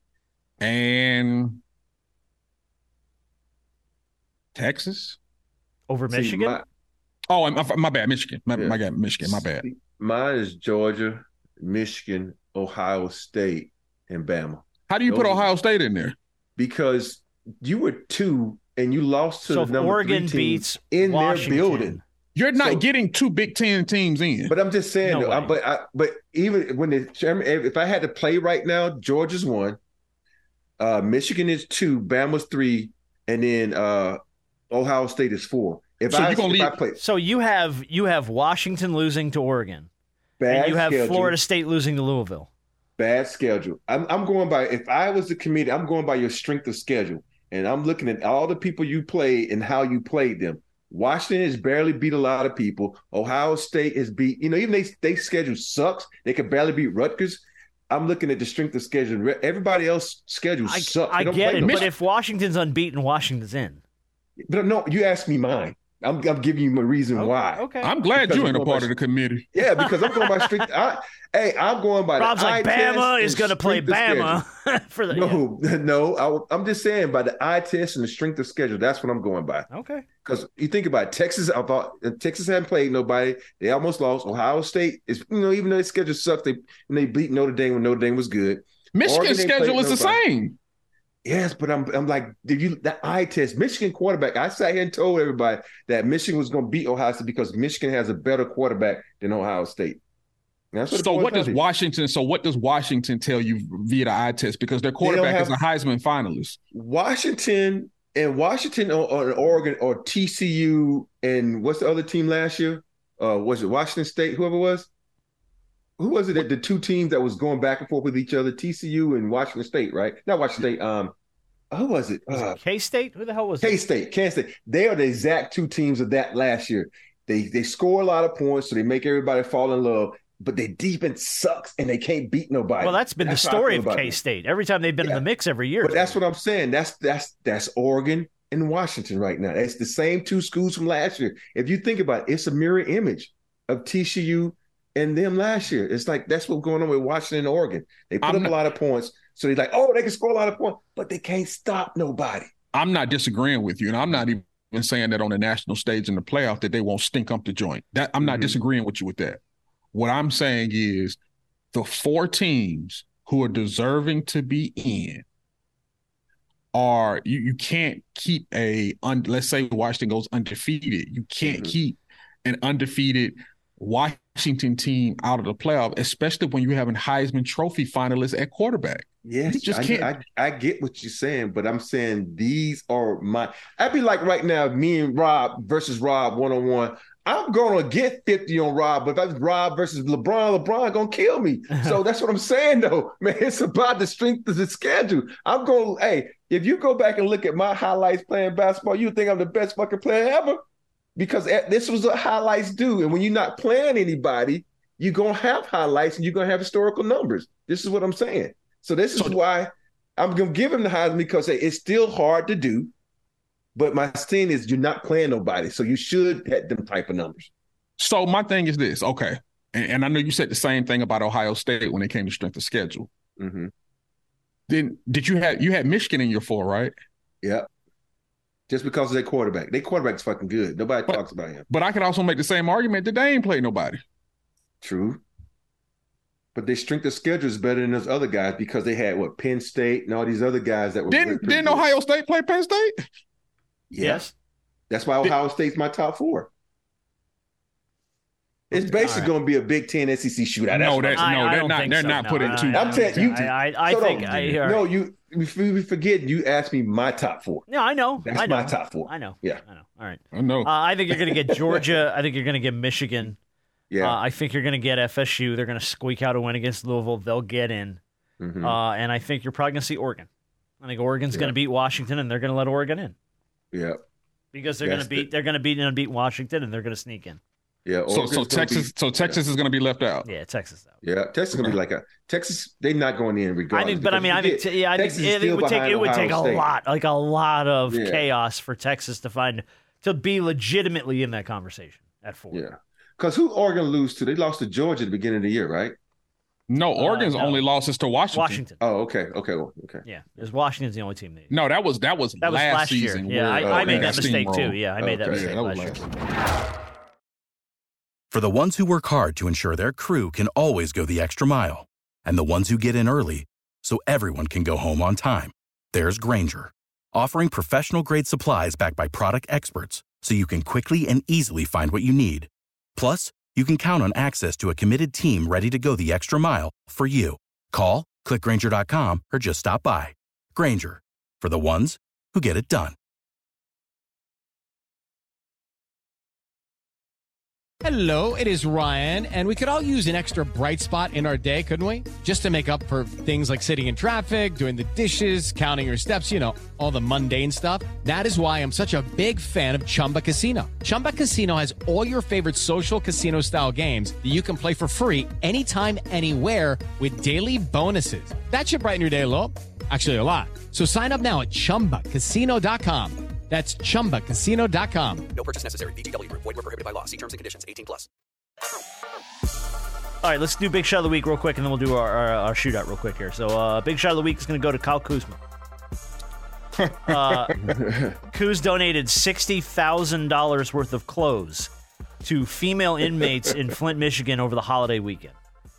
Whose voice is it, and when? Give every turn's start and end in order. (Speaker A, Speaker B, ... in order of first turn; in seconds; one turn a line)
Speaker A: 0.6-1.6
Speaker A: 4.5-5.2
Speaker B: 5.9-6.6
Speaker C: 6.1-6.6
Speaker A: 7.3-9.6
Speaker C: 8.5-15.5
Speaker A: 14.9-16.2
Speaker C: 16.6-22.0
Speaker B: 19.5-22.0
Speaker A: 22.4-24.5
Speaker C: 22.6-22.9
Speaker C: 24.5-29.8
Speaker B: 25.0-25.6
Speaker C: 30.8-34.2
Speaker C: 34.7-37.0
Speaker A: 36.1-36.8
Speaker B: 37.0-39.9
Speaker C: 40.4-41.4
Speaker B: 40.5-42.5
Speaker C: 43.0-61.9
Speaker B: 60.6-63.8
Speaker A: 61.6-61.9
Speaker C: 64.5-68.9
Speaker B: 67.2-67.9
Speaker A: 67.8-69.5
Speaker C: 69.5-74.4
Speaker B: 69.8-70.6
Speaker B: 72.2-75.4
Speaker C: 75.1-79.7
Speaker B: 79.7-80.0
Speaker C: 80.2-90.2
Speaker A: 89.0-90.6
Speaker C: 91.2-100.0
Speaker C: 100.7-101.6
Speaker A: 100.9-106.6
Speaker C: 105.0-105.6
Speaker C: 106.7-114.9
Speaker C: 116.0-121.1
Speaker C: 121.7-122.6
Speaker B: 122.3-123.8
Speaker C: 123.6-134.2
Speaker B: 132.8-136.2
Speaker C: 135.8-152.5
Speaker A: 148.2-148.5
Speaker A: 152.7-159.4
Speaker C: 158.2-158.6
Speaker A: 159.9-161.2
Speaker A: 161.7-165.2
Speaker A: 166.7-180.1
Speaker C: 171.4-171.7
Speaker C: 179.2-200.6
Speaker C: 201.2-212.9
Speaker C: 213.8-217.5
Speaker A: 218.0-223.1
Speaker C: 223.4-223.7
Speaker A: 224.7-226.9
Speaker C: 227.4-227.7
Speaker C: 228.7-231.7
Speaker A: 231.1-234.0
Speaker C: 234.8-235.2
Speaker C: 236.6-241.9
Speaker A: 241.1-243.0
Speaker C: 243.9-244.3
Speaker B: 244.0-244.3
Speaker C: 244.9-246.5
Speaker C: 248.7-251.3
Speaker B: 249.0-249.3
Speaker A: 250.7-253.3
Speaker B: 251.2-254.8
Speaker C: 252.7-257.7
Speaker B: 257.7-263.4
Speaker C: 258.2-259.6
Speaker A: 260.3-260.7
Speaker C: 261.3-261.9
Speaker C: 263.9-264.2
Speaker B: 264.0-268.0
Speaker C: 268.4-268.8
Speaker B: 268.6-270.3
Speaker B: 270.8-273.1
Speaker C: 273.7-274.0
Speaker B: 274.5-277.4
Speaker C: 274.8-275.3
Speaker C: 277.9-279.4
Speaker A: 278.1-280.3
Speaker B: 280.2-280.9
Speaker C: 281.0-286.7
Speaker B: 283.7-292.6
Speaker C: 287.9-288.2
Speaker C: 292.5-295.9
Speaker A: 296.7-298.6
Speaker B: 297.0-297.6
Speaker B: 298.3-298.8
Speaker C: 298.8-300.1
Speaker B: 300.1-301.5
Speaker A: 301.5-306.1
Speaker B: 302.4-306.1
Speaker C: 303.6-304.2
Speaker C: 305.0-305.4
Speaker D: 308.3-332.9
Speaker E: 337.8-365.3
Speaker F: 365.4-368.1
Speaker B: 370.2-375.4
Speaker A: 376.8-377.7
Speaker B: 377.1-377.6
Speaker C: 377.7-378.2
Speaker B: 378.3-381.7
Speaker B: 382.2-385.4